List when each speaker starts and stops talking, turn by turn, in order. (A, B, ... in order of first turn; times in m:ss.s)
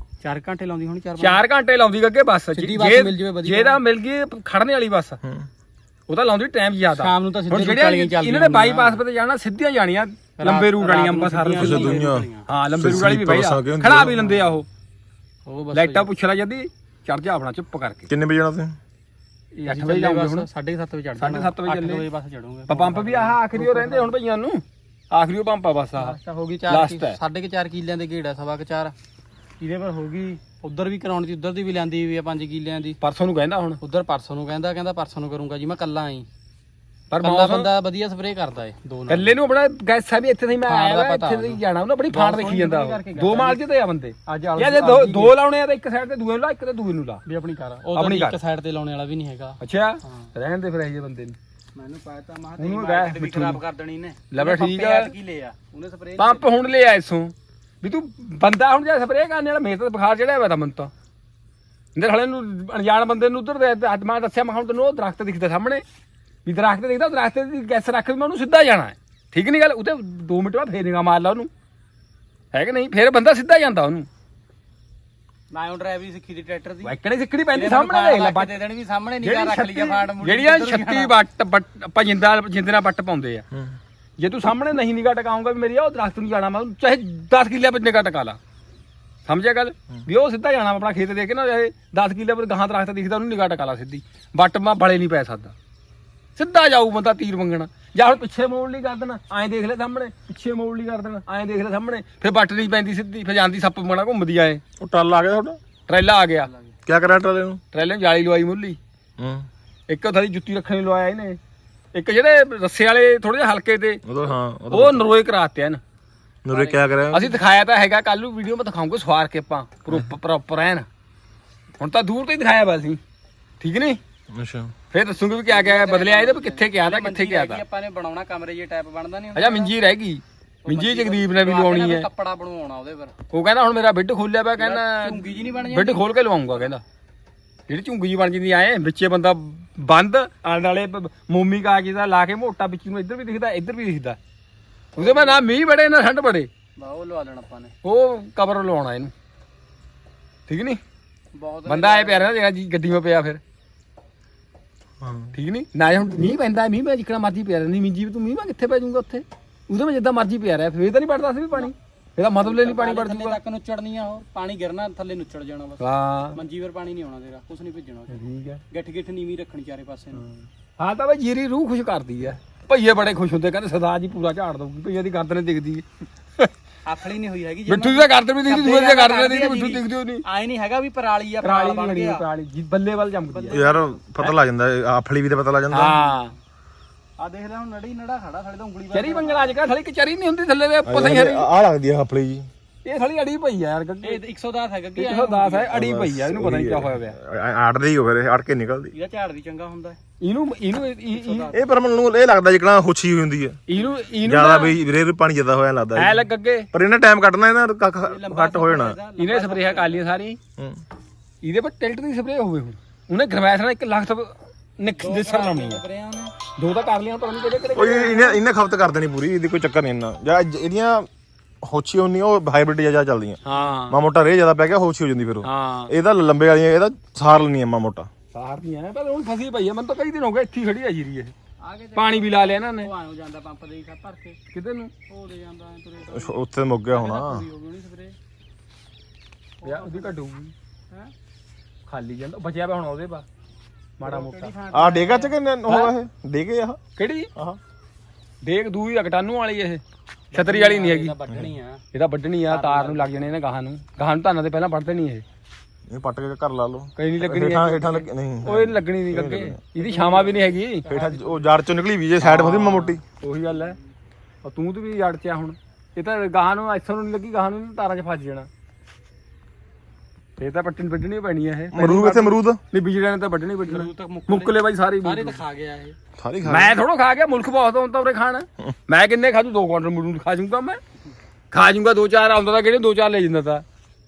0:00.2-0:01.4 A
0:01.2-0:05.2 B
0:02.6-0:03.8 A
0:05.2-0:05.5 C
0:06.1-0:14.7 B
0:06.9-0:09.0 A
0:10.4-0:12.5 A
0:11.5-0:14.3 C
0:15.5-0:16.1 A
0:15.7-0:18.1 B
0:18.1-0:18.8 C
0:19.6-0:20.5 B
0:19.7-0:24.2 A
0:21.2-0:22.0 B
0:22.7-0:26.2 B
0:26.0-0:28.9 A
0:26.7-0:27.2 B
0:29.6-0:33.0 A
0:33.0-0:33.8 B
0:33.8-0:36.3 A
0:37.1-0:37.7 B
0:37.2-0:39.3 A
0:39.1-0:47.2 B
0:40.7-0:41.6 A
0:42.1-0:43.6 A
0:44.3-0:45.3 A
0:47.3-0:50.3 A
0:48.0-0:48.4 B
0:49.6-0:51.4 B
0:51.8-0:56.5 A
0:52.6-0:53.6 B
0:54.3-0:55.1 B
0:56.2-1:00.9 B
1:02.0-1:05.8 B
1:06.5-1:11.5 B
1:12.5-1:14.1 B
1:15.5-1:16.9 A
1:16.8-1:18.6 B
1:17.5-1:21.1 A
1:19.2-1:23.5 B
1:24.2-1:28.4 B
1:29.3-1:35.5 B
1:36.4-1:44.6 B
1:44.8-1:45.6 C
1:45.9-1:46.5 B
1:46.4-1:46.7 A
1:46.9-1:47.6 C
1:47.7-1:48.8 B
1:49.2-1:49.5 C
1:49.9-1:51.4 B
1:51.9-1:54.0 B
1:54.1-1:55.1 C
1:54.7-1:55.8 B
1:56.4-1:57.4 C
1:56.5-1:56.8 A
1:57.1-2:00.9 B
2:01.8-2:03.0 B
2:03.6-2:04.0 B
2:04.3-2:04.7 C
2:04.9-2:07.6 B
2:05.5-2:09.7 A
2:09.4-2:12.1 B
2:10.7-2:13.1 A
2:13.3-2:16.8 B
2:14.6-2:16.0 A
2:17.7-2:24.2 B
2:25.0-2:26.5 B
2:25.0-2:25.4 A
2:26.8-2:27.7 A
2:27.8-2:29.1 B
2:30.5-2:30.8 B
2:31.3-2:32.3 A
2:31.7-2:33.4 B
2:35.0-2:35.3 C
2:35.3-2:43.4 B
2:42.4-2:50.2 A
2:45.8-2:46.4 B
2:48.1-2:48.6 B
2:50.2-2:55.8 B
2:56.8-3:02.2 A
2:57.7-3:00.2 B
3:01.4-3:03.6 B
3:03.3-3:04.0 A
3:03.5-3:06.0 C
3:05.7-3:06.3 B
3:07.2-3:09.6 A
3:08.9-3:11.5 B
3:10.9-3:12.5 C
3:12.8-3:14.2 B
3:14.0-3:15.8 A
3:15.0-3:17.2 B
3:15.7-3:18.9 C
3:18.9-3:20.0 A
3:20.2-3:21.5 B
3:21.1-3:21.6 A
3:21.5-3:23.6 C
3:23.7-3:24.7 B
3:24.2-3:29.0 C
3:26.0-3:26.7 B
3:28.1-3:30.1 A
3:29.2-3:30.4 B
3:31.4-3:35.8 B
3:35.0-3:36.4 A
3:36.6-3:38.4 B
3:37.8-3:41.1 C
3:41.6-3:48.1 C
3:43.4-3:44.0 B
3:45.4-3:45.9 B
3:48.3-3:51.3 B
3:51.6-3:54.4 A
3:52.0-3:52.9 B
3:54.5-3:54.9 B
3:55.1-3:56.4 A
3:56.1-3:57.4 C
3:56.9-3:58.2 A
3:59.6-4:00.1 A
3:59.6-4:00.5 B
4:01.9-4:03.2 B
4:04.0-4:04.5 B
4:04.0-4:05.4 A
4:04.7-4:06.8 C
4:07.0-4:07.3 B
4:08.4-4:09.8 B
4:10.3-4:11.8 A
4:10.3-4:11.2 B
4:11.3-4:11.5 C
4:11.9-4:15.2 B
4:12.5-4:13.2 A
4:15.9-4:19.6 C
4:17.0-4:20.8 B
4:19.8-4:21.5 A
4:20.9-4:23.0 C
4:22.2-4:23.8 B
4:23.5-4:23.8 A
4:24.4-4:28.5 B
4:30.4-4:35.4 B
4:31.7-4:32.6 C
4:33.7-4:36.0 A
4:36.2-4:36.8 C
4:36.4-4:40.8 B
4:41.5-4:43.6 B